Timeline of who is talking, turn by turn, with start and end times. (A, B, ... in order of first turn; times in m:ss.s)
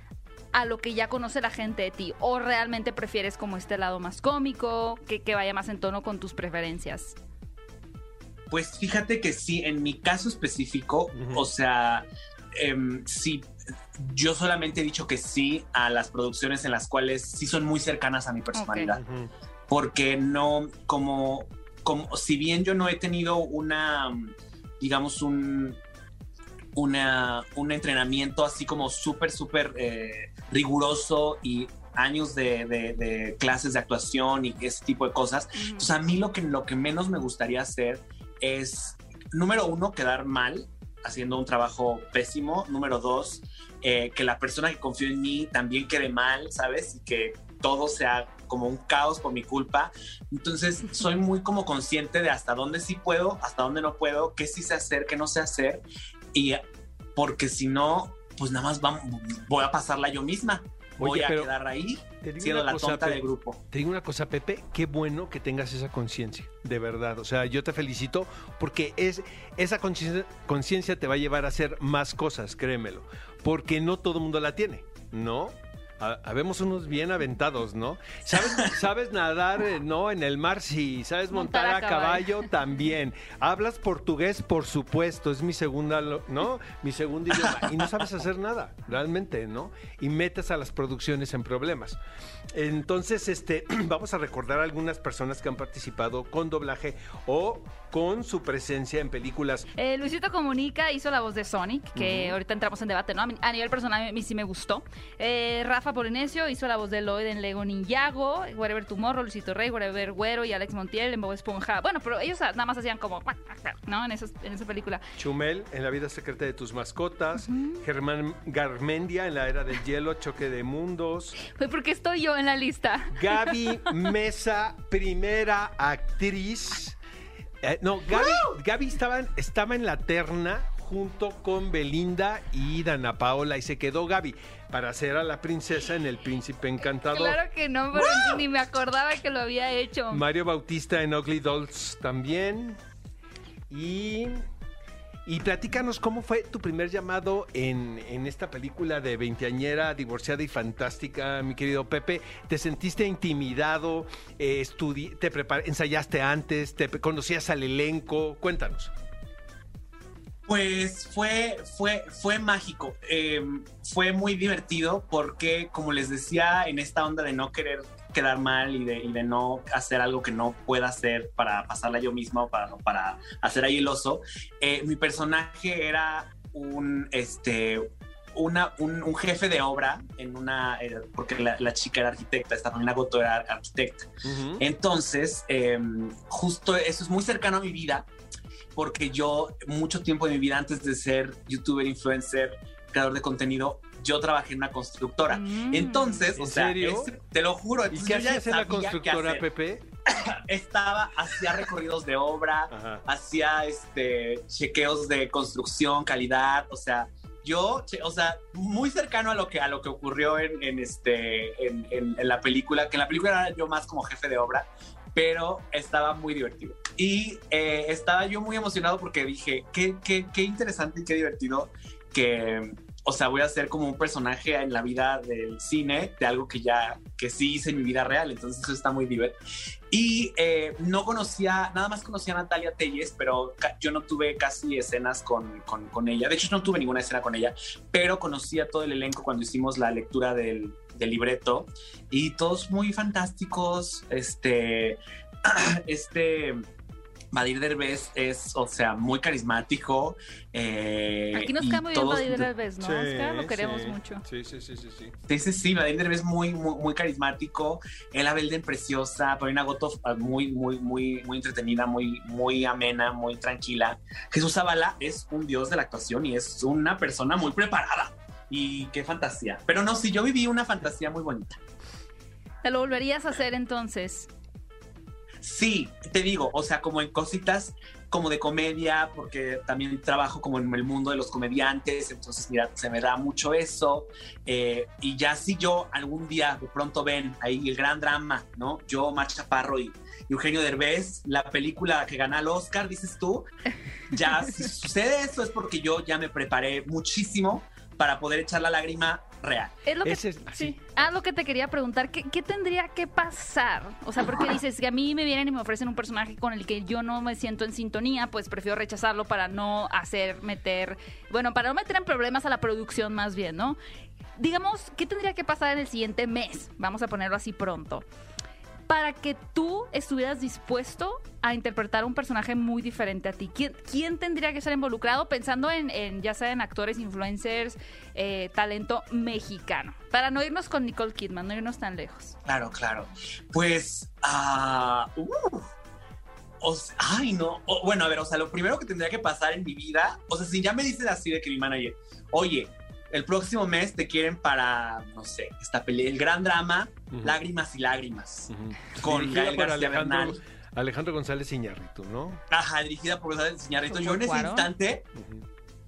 0:00.5-0:07.2 A
0:08.5-0:19.0 B
0:11.1-0:11.4 C
0:18.5-0:18.9 A
0:19.0-0:19.3 C
0:19.7-0:25.8 B
0:26.7-0:55.8 B
0:35.5-0:35.9 A
0:56.3-0:56.6 B
0:57.2-1:03.6 B
1:01.0-1:01.5 C
1:02.2-1:32.0 C
1:21.3-1:22.5 A
1:32.5-1:39.7 C
1:39.7-1:55.0 A
1:41.9-1:42.4 C
1:55.2-2:01.4 C
1:57.5-1:57.8 A
2:01.4-2:04.0 A
2:03.1-2:07.0 C
2:07.6-2:17.4 C
2:16.9-2:20.2 A
2:17.9-2:18.4 C
2:20.1-2:22.8 C
2:23.7-2:24.4 C
2:25.2-2:38.9 C
2:40.5-3:08.1 B
3:04.2-3:04.6 C
3:08.7-3:19.4 B
3:15.3-3:16.3 A
3:16.4-3:17.1 C
3:17.9-3:19.9 C
3:20.1-3:49.4 B
3:22.7-3:23.0 C
3:49.9-4:06.6 B
4:07.3-4:12.5 B
4:11.3-4:14.2 A
4:12.8-4:15.1 C
4:15.3-4:31.6 B
4:32.6-4:34.3 A
4:35.4-4:53.4 B
4:54.1-4:59.7 B
4:59.8-5:13.8 A
5:00.0-5:00.8 C
5:14.4-5:18.0 A
5:18.9-5:32.3 A
5:32.4-5:35.7 B
5:36.6-5:50.4 B
5:48.5-5:52.4 C
5:52.5-5:55.0 B
5:53.9-5:54.7 A
5:55.2-5:55.4 C